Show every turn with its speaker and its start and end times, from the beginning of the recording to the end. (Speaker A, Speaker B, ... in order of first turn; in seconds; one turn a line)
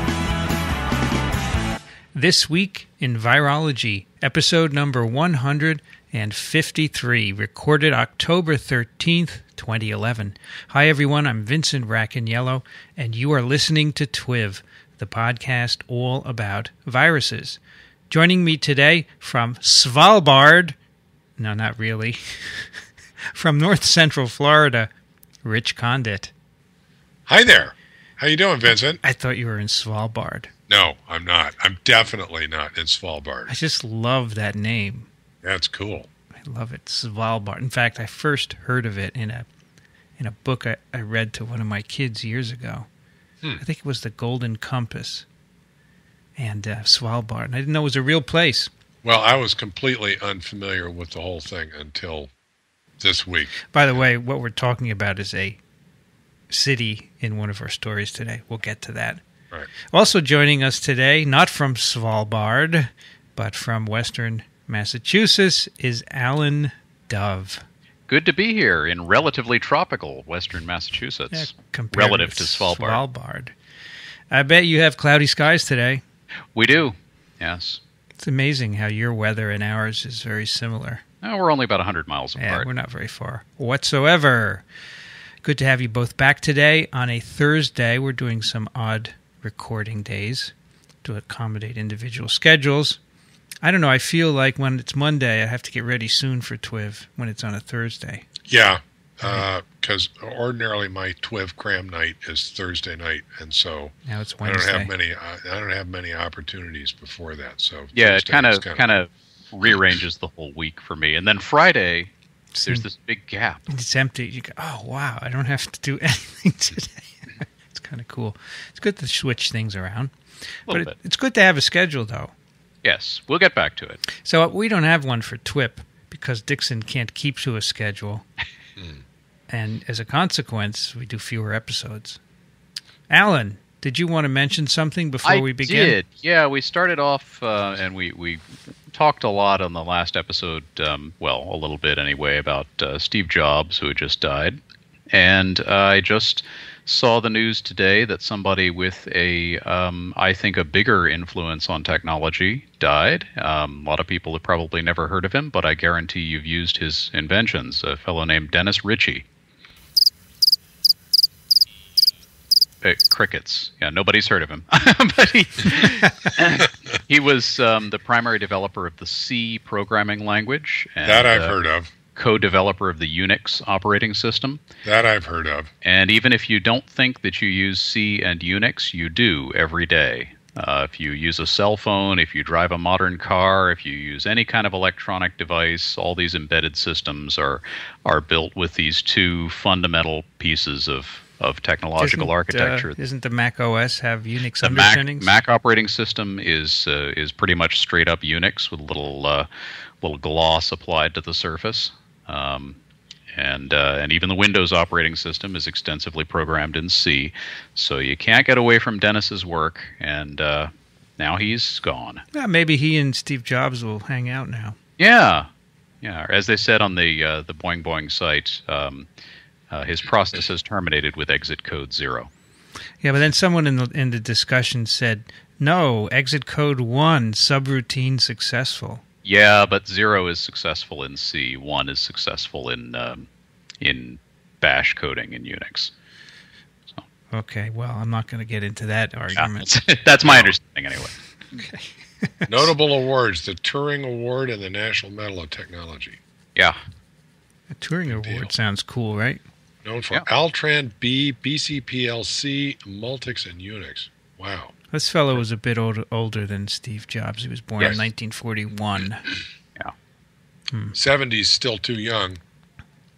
Speaker A: 2.1-20.8
Speaker A: 21.4-22.7
Speaker A: 23.3-24.9
Speaker A: 25.4-26.3
Speaker B: 27.3-29.0
Speaker A: 28.7-30.5
Speaker B: 30.7-33.5
Speaker A: 33.5-35.1
Speaker B: 35.4-36.1
Speaker A: 36.4-39.5
Speaker A: 40.2-42.9
Speaker A: 43.6-45.3
Speaker A: 46.4-48.7
Speaker B: 49.0-52.3
Speaker B: 53.0-53.6
Speaker A: 53.7-55.6
Speaker A: 56.5-59.2
Speaker A: 59.9-67.6
Speaker C: 68.1-73.0
Speaker A: 71.3-73.5
Speaker A: 74.3-76.0
Speaker C: 76.5-77.8
Speaker A: 78.2-81.0
Speaker C: 81.2-82.7
Speaker A: 82.4-84.7
Speaker A: 85.4-90.5
Speaker A: 91.0-93.0
Speaker A: 93.6-98.3
Speaker B: 98.5-108.8
Speaker A: 104.1-104.9
Speaker C: 107.9-112.1
Speaker A: 112.5-112.8
Speaker C: 112.7-113.6
Speaker A: 113.7-120.1
Speaker A: 120.7-122.3
Speaker C: 120.7-120.9
Speaker C: 122.8-124.0
Speaker A: 124.2-128.3
Speaker A: 129.5-132.2
Speaker A: 133.1-136.0
Speaker C: 135.2-144.6
Speaker C: 145.1-159.2
Speaker C: 162.8-171.6
Speaker B: 171.1-171.9
Speaker C: 172.2-174.6
Speaker B: 174.8-175.7
Speaker C: 175.8-192.9
Speaker A: 192.0-195.3
Speaker C: 194.6-199.5
Speaker C: 200.0-202.8
Speaker C: 203.3-212.2
Speaker A: 212.3-214.8
Speaker C: 215.0-215.5
Speaker C: 216.0-219.1
Speaker C: 219.7-222.3
Speaker A: 223.0-229.0
Speaker C: 229.2-233.3
Speaker C: 233.8-235.9
Speaker A: 237.3-239.7
Speaker C: 239.4-241.2
Speaker B: 240.2-240.6
Speaker A: 241.5-242.7
Speaker B: 242.5-246.2
Speaker A: 247.7-249.4
Speaker B: 248.1-248.5
Speaker B: 249.8-254.7
Speaker A: 254.9-259.3
Speaker B: 260.9-262.4